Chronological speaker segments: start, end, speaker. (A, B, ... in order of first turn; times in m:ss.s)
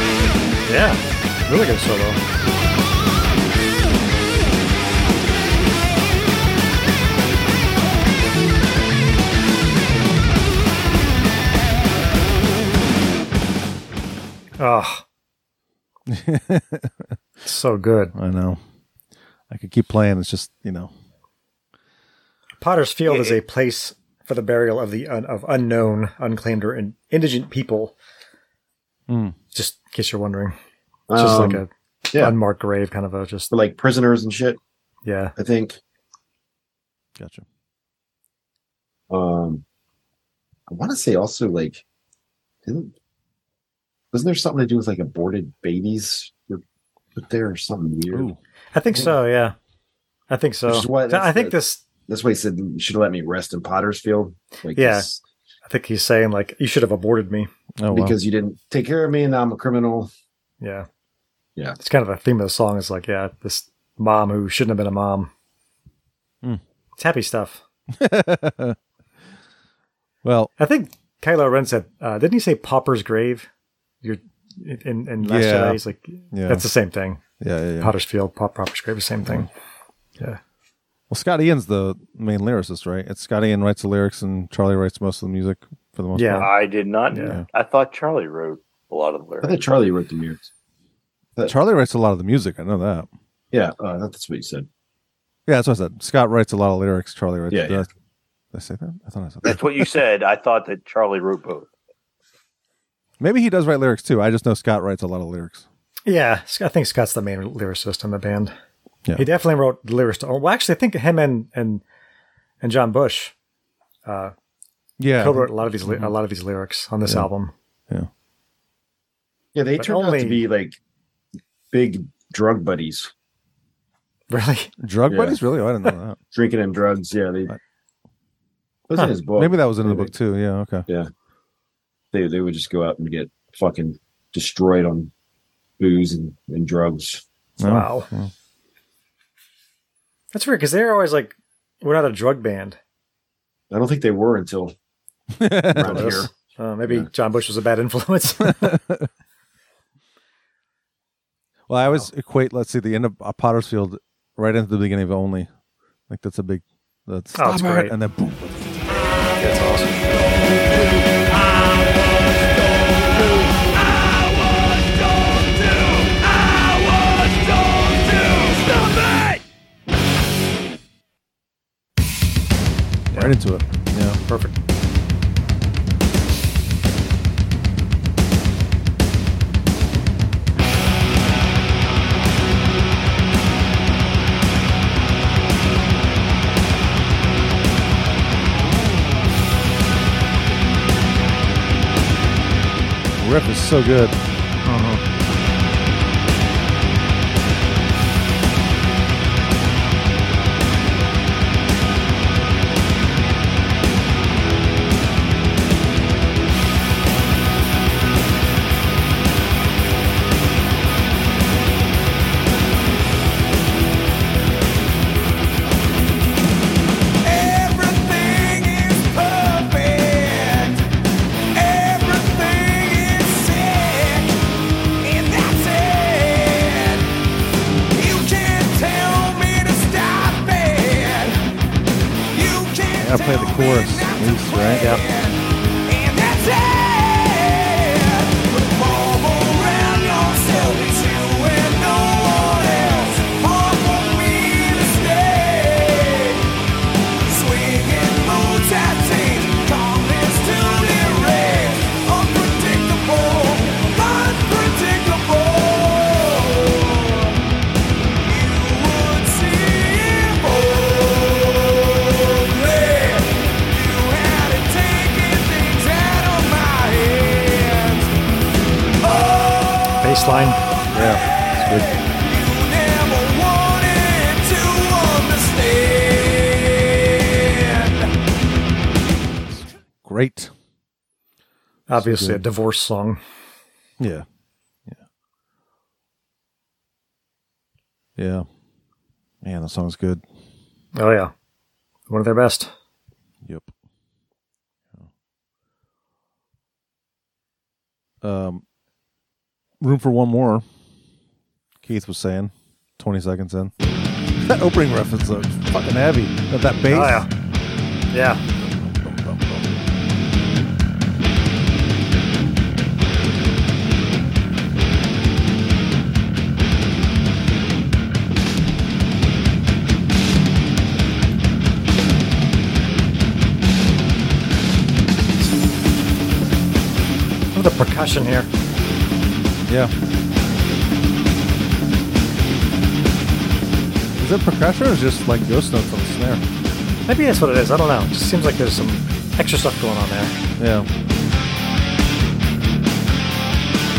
0:00.6-0:02.2 A
0:14.6-0:15.0 A
0:16.1-0:17.0 B
0:17.4-0:18.1 A
0:18.2-0:18.6 B
0:19.5-0:20.9 B
0:22.6-0:27.9 A
0:23.1-0:23.4 C
0:29.1-0:29.4 B
0:29.5-0:30.6 A
0:31.1-0:32.4 D
0:31.2-0:33.5 A
0:33.5-0:34.6 D
0:35.0-0:35.3 A
0:35.4-0:35.8 D
0:37.2-0:37.4 B
0:39.1-0:39.6 D
0:40.7-0:41.8 D
0:42.6-0:42.9 D
0:44.1-0:46.6 D
0:47.2-0:48.3 D
0:48.1-0:48.4 B
0:48.7-0:49.6 A
0:50.3-0:51.8 A
0:50.6-0:55.2 D
0:54.8-0:55.1 A
0:55.6-0:57.5 A
0:57.8-0:58.2 B
0:57.9-1:00.1 D
1:00.6-1:00.9 A
1:01.8-1:05.3 A
1:07.0-1:07.6 A
1:08.0-1:08.8 B
1:10.2-1:10.5 B
1:10.6-1:13.5 A
1:14.0-1:17.2 A
1:15.2-1:16.6 B
1:17.4-1:17.9 B
1:17.8-1:19.5 A
1:21.1-1:26.5 B
1:26.2-1:26.5 A
1:26.4-1:29.6 C
1:27.1-1:27.4 A
1:27.2-1:27.4 B
1:29.4-1:30.5 D
1:31.4-1:33.1 B
1:33.5-1:34.7 D
1:35.5-1:37.9 B
1:37.5-1:37.9 D
1:38.5-1:39.7 B
1:39.4-1:41.7 C
1:43.2-1:45.6 B
1:46.1-1:48.5 A
1:49.2-1:51.8 A
1:52.6-1:53.3 A
1:54.1-1:54.3 A
1:55.0-1:56.2 B
1:55.2-1:57.5 A
1:59.5-2:00.8 D
1:59.8-2:00.4 A
2:01.7-2:03.1 D
2:04.3-2:04.7 A
2:04.8-2:06.2 B
2:05.1-2:05.4 D
2:06.3-2:07.5 D
2:08.9-2:10.1 D
2:09.4-2:10.9 B
2:12.1-2:15.1 D
2:15.8-2:17.2 D
2:17.6-2:18.3 B
2:17.6-2:18.1 A
2:20.3-2:22.8 A
2:23.7-2:24.7 D
2:25.3-2:26.3 B
2:25.7-2:26.3 D
2:25.8-2:28.8 A
2:28.4-2:29.1 B
2:31.7-2:35.5 B
2:36.1-2:38.5 B
2:37.4-2:37.9 A
2:38.9-2:49.4 E
2:39.4-2:40.0 A
2:53.1-2:53.4 A
2:53.1-2:54.2 B
2:54.3-2:54.6 A
3:13.2-3:14.2 B
3:14.6-3:15.0 A
3:37.2-3:40.9 E
3:41.5-3:44.4 E
3:45.0-3:47.1 E
3:47.9-3:51.4 E
3:52.3-4:06.4 E
3:53.0-3:54.9 B
3:54.8-3:55.0 A
4:07.2-4:17.4 E
4:18.2-4:28.1 E
4:29.0-4:38.1 E
4:30.0-4:30.6 A
4:30.9-4:31.9 B
4:40.0-4:40.5 B
4:41.9-4:43.2 A
4:41.9-4:42.4 B
4:44.0-4:44.2 B
4:48.2-4:48.4 B
4:49.4-4:50.2 B
4:50.9-4:51.3 A
4:52.1-4:52.7 A
4:53.4-4:53.7 B
4:58.2-4:58.6 B
4:59.8-5:00.6 B
5:01.8-5:03.7 B
5:04.4-5:07.2 B
5:06.9-5:07.3 A
5:08.1-5:08.4 A
5:08.6-5:09.7 B
5:27.5-5:28.5 A
5:34.2-5:36.4 B
5:37.1-5:40.4 A
5:40.6-5:40.9 B